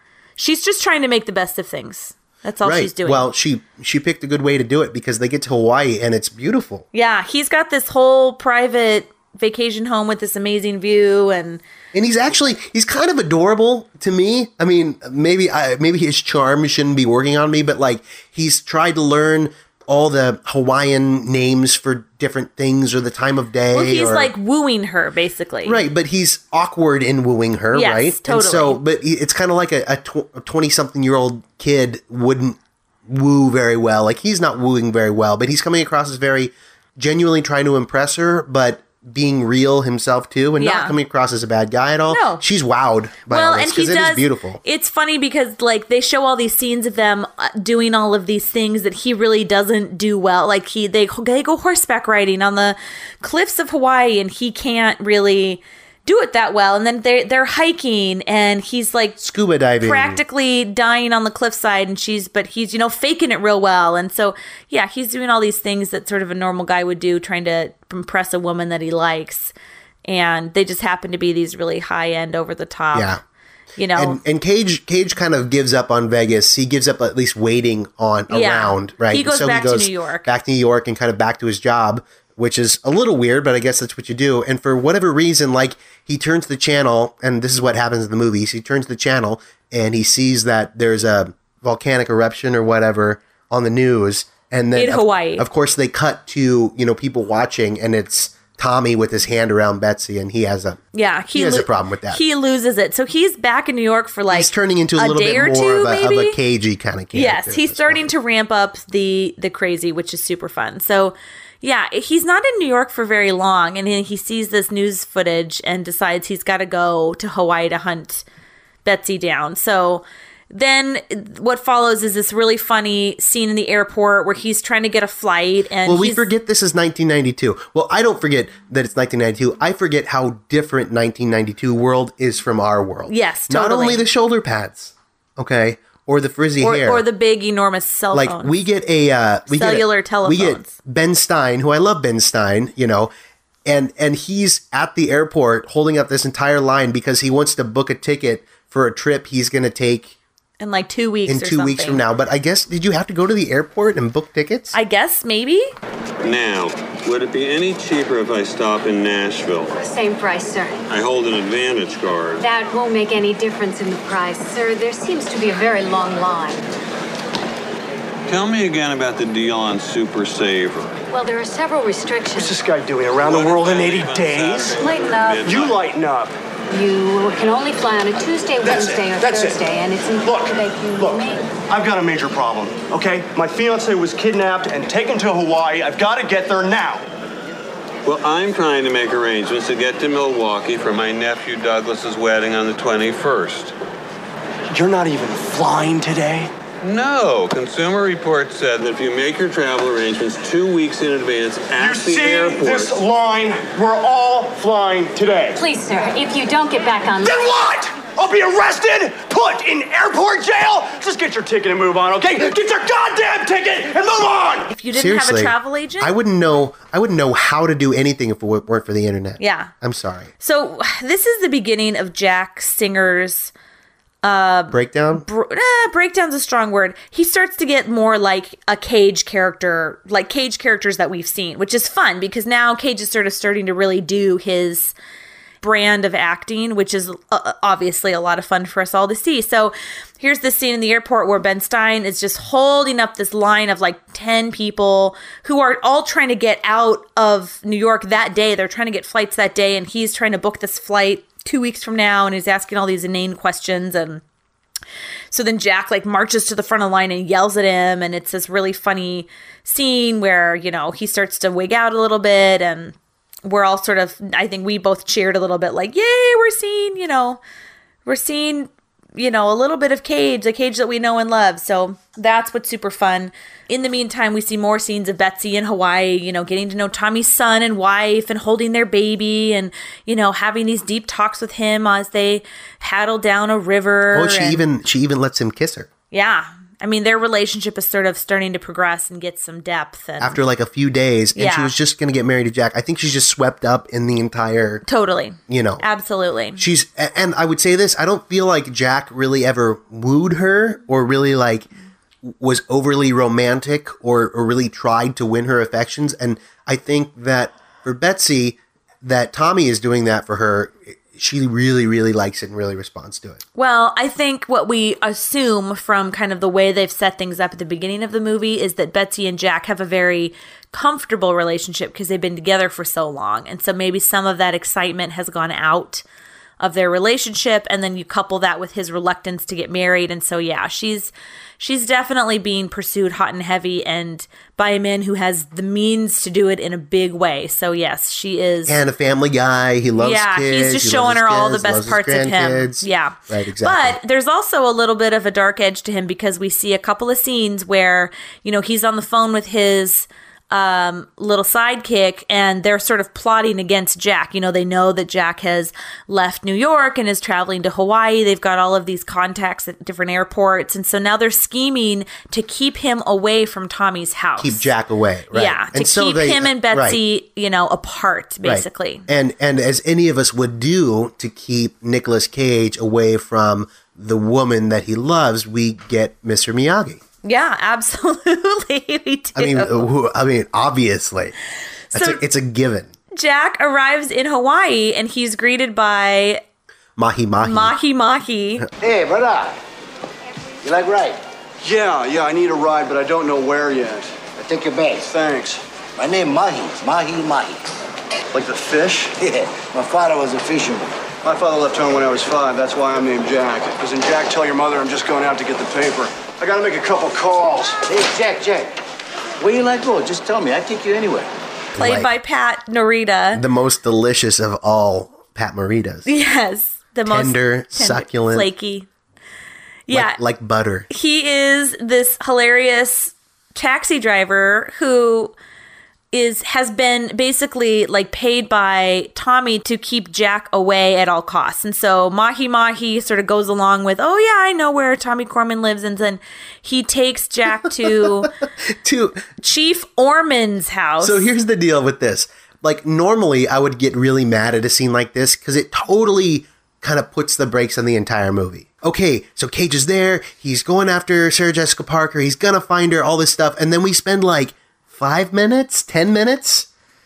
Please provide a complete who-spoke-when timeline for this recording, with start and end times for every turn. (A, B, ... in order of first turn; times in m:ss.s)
0:00.4-0:03.3 A
0:02.6-0:06.8 B
0:06.9-0:11.6 A
0:11.9-0:24.3 B
0:23.7-0:25.8 A
0:25.6-0:44.6 B
0:27.7-0:28.8 A
0:40.6-0:41.0 A
0:42.1-0:42.4 A
0:43.3-0:59.2 A
0:59.2-1:00.2 B
0:59.8-1:09.5 A
1:10.0-1:13.1 A
1:12.9-1:13.2 B
1:13.8-1:14.2 A
1:13.9-1:40.8 B
1:18.3-1:20.3 A
1:34.8-1:35.4 A
1:40.9-1:46.4 A
1:41.3-1:42.2 B
1:44.3-1:48.1 B
1:47.1-1:58.2 A
1:58.8-2:06.3 A
2:05.8-2:17.0 B
2:13.1-2:14.0 A
2:16.6-2:18.6 A
2:18.1-2:23.1 B
2:19.5-2:20.7 A
2:23.6-2:30.1 B
2:30.6-2:32.0 A
2:31.3-2:34.7 B
2:34.7-2:35.6 A
2:36.2-2:39.7 C
2:39.8-2:40.8 D
2:40.9-2:42.4 C
2:42.4-2:46.6 D
2:48.3-2:51.0 C
2:51.1-2:52.6 D
2:52.3-2:54.8 E
2:53.2-2:55.8 C
2:54.8-2:55.5 D
2:55.4-2:56.3 E
2:56.7-3:01.4 D
2:58.6-2:59.6 E
3:00.2-3:07.0 E
3:08.0-3:13.7 C
3:14.7-3:16.5 E
3:16.8-3:23.0 C
3:21.7-3:25.6 E
3:25.6-3:27.4 D
3:27.2-3:34.7 E
3:34.7-3:36.1 A
3:34.9-3:40.3 B
3:39.4-3:39.7 A
3:40.4-3:43.5 A
3:44.2-3:54.9 A
3:44.7-3:45.2 B
3:55.6-4:14.2 A
4:15.3-4:27.4 A
4:28.0-4:44.6 A
4:44.1-4:45.9 B
4:46.1-4:50.4 A
4:50.2-4:54.8 B
4:51.3-4:51.7 A
4:54.8-4:56.6 A
4:55.5-4:55.8 B
4:56.6-5:01.7 B
5:02.2-5:13.4 B
5:13.5-5:26.0 A
5:26.6-5:38.8 A
5:38.6-5:44.0 B
5:40.0-6:04.7 A
6:04.4-6:07.0 B
6:05.3-6:09.0 A
6:08.4-6:17.0 B
6:17.2-6:19.9 A
6:19.3-6:21.3 B
6:21.9-6:22.2 A
6:21.9-6:22.9 B
6:23.1-6:26.4 A
6:27.0-6:27.7 B
6:27.4-6:28.6 A
6:28.8-6:29.6 F
6:30.6-6:31.2 F
6:31.6-6:34.2 E
6:34.4-6:35.1 F
6:35.1-6:35.6 E
6:36.0-6:37.6 F
6:38.3-6:39.1 E
6:39.2-6:41.0 F
6:41.2-6:47.8 E
6:47.8-6:48.7 F
6:49.4-6:51.3 F
6:51.7-6:52.1 B
6:51.8-6:53.4 A
6:53.3-6:56.1 B
6:56.0-6:58.9 A
6:57.0-6:58.5 B
6:59.9-7:00.2 A
6:59.9-7:00.9 B
7:00.9-7:05.3 A
7:06.1-7:18.3 A
7:17.8-7:19.3 B
7:19.4-7:21.3 A
7:21.0-7:36.7 B